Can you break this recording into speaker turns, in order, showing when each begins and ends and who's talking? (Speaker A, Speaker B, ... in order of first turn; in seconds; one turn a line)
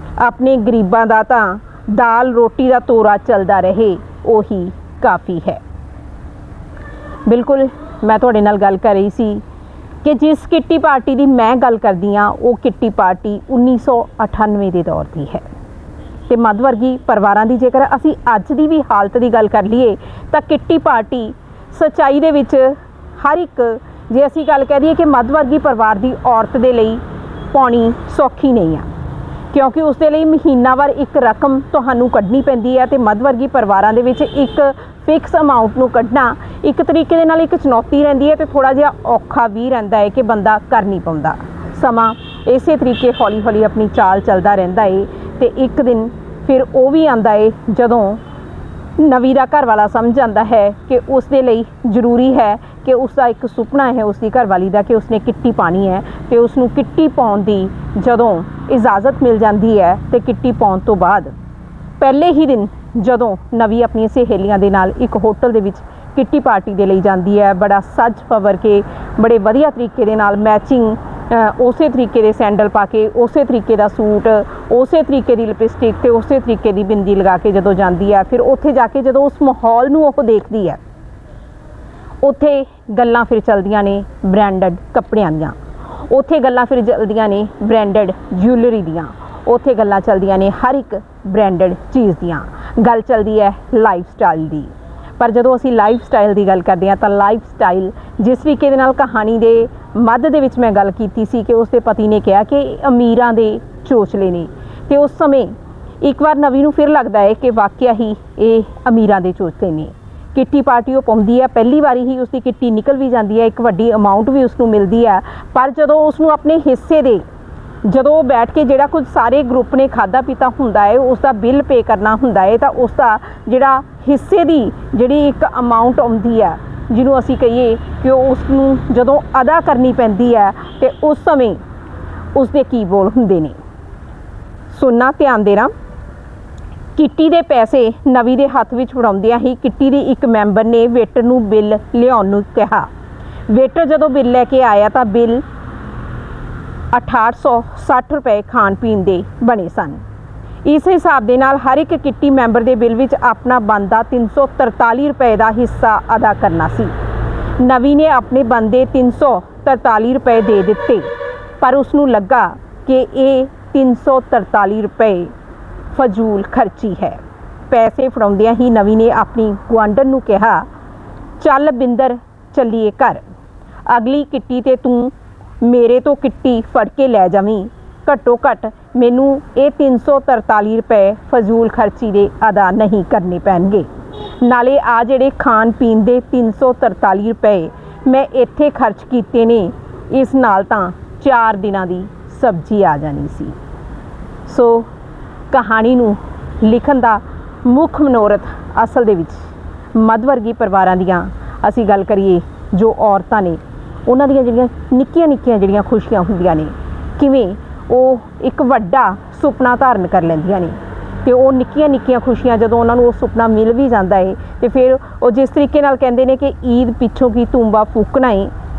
Speaker A: 0.2-5.6
Speaker A: 7.3-9.4
Speaker A: 10.0-15.4
Speaker A: 16.3-28.9
Speaker A: 29.5-48.2
Speaker A: 49.0-61.3
Speaker A: 62.0-80.8
Speaker A: 82.2-117.2
Speaker A: 117.8-131.6
Speaker A: 132.3-133.6
Speaker A: 134.7-135.7
Speaker A: 136.9-142.9
Speaker A: 143.5-145.4
Speaker A: 146.9-150.0
Speaker A: 150.6-156.9
Speaker A: 157.6-165.3
Speaker A: 165.9-170.7
Speaker A: 171.4-173.2
Speaker A: 173.9-183.9
Speaker A: 184.4-193.6
Speaker A: 194.4-194.9
Speaker A: 195.5-218.5